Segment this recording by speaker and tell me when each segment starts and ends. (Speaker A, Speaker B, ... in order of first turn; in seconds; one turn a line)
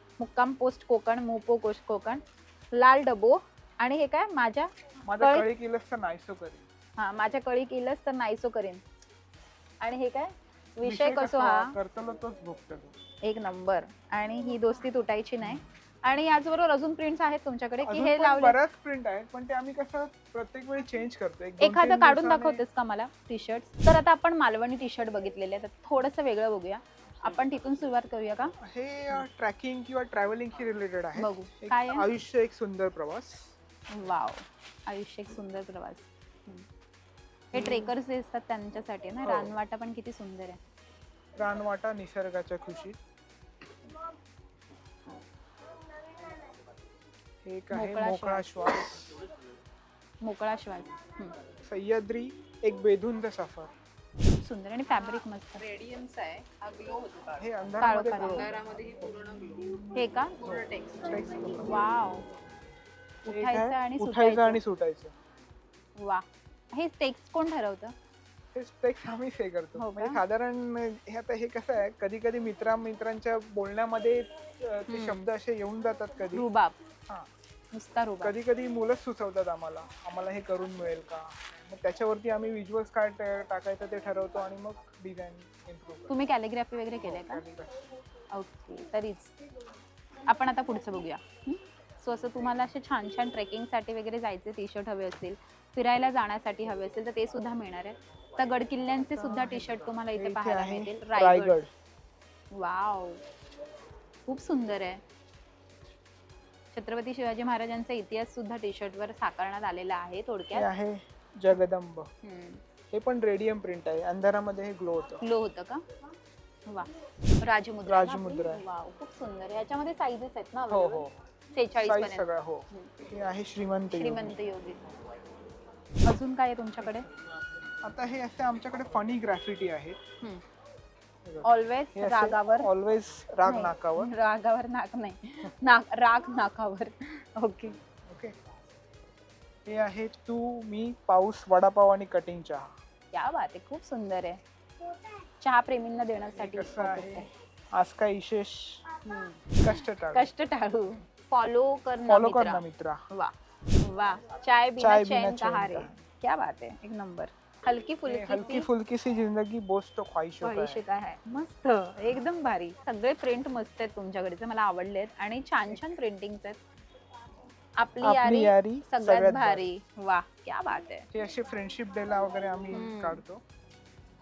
Speaker A: 0.2-2.2
Speaker A: 2.7-5.5
Speaker B: 5.1-6.7
Speaker A: 7.0-8.8
Speaker A: 9.8-11.8
Speaker B: 10.8-13.0
Speaker A: 13.2-18.6
Speaker B: 17.8-22.6
Speaker A: 21.6-28.6
Speaker B: 28.6-33.5
Speaker A: 31.2-32.1
Speaker A: 33.9-36.6
Speaker A: 37.5-40.6
Speaker B: 37.6-37.9
Speaker B: 39.2-39.6
Speaker B: 41.4-43.0
Speaker B: 47.4-49.2
Speaker A: 47.7-48.7
Speaker A: 50.2-51.4
Speaker B: 51.6-53.7
Speaker A: 54.4-55.7
Speaker C: 55.7-57.4
Speaker B: 57.4-58.6
Speaker A: 57.8-58.6
Speaker C: 58.7-59.6
Speaker A: 59.9-60.5
Speaker B: 60.4-61.9
Speaker A: 61.6-62.3
Speaker A: 63.3-64.6
Speaker B: 63.3-65.1
Speaker A: 66.0-67.9
Speaker B: 68.5-76.5
Speaker A: 69.8-70.2
Speaker A: 74.9-75.2
Speaker A: 76.3-76.8
Speaker A: 77.7-78.3
Speaker B: 78.2-86.2
Speaker A: 86.1-87.4
Speaker B: 87.0-87.9
Speaker A: 88.3-89.3
Speaker A: 90.3-101.6
Speaker B: 99.2-101.7
Speaker A: 102.5-103.2
Speaker A: 104.3-105.0
Speaker A: 106.7-110.7
Speaker B: 110.5-112.1
Speaker A: 112.2-112.6
Speaker B: 112.9-115.2
Speaker A: 115.2-115.8
Speaker A: 117.4-122.9
Speaker B: 117.8-118.7
Speaker B: 120.7-121.2
Speaker B: 121.8-124.4
Speaker A: 123.9-124.8
Speaker A: 126.1-127.1
Speaker B: 127.8-130.0
Speaker B: 131.2-134.1
Speaker A: 131.4-132.7
Speaker A: 133.4-137.8
Speaker B: 138.1-138.3
Speaker B: 139.7-142.7
Speaker A: 143.1-144.4
Speaker A: 145.4-147.3
Speaker B: 146.3-148.8
Speaker A: 149.1-158.7
Speaker B: 149.6-150.3
Speaker B: 152.1-153.0
Speaker B: 154.8-156.0
Speaker B: 158.1-160.8
Speaker A: 160.4-166.6
Speaker B: 165.7-166.0
Speaker A: 167.8-171.1
Speaker B: 168.0-169.7
Speaker B: 171.1-173.4
Speaker A: 172.7-173.2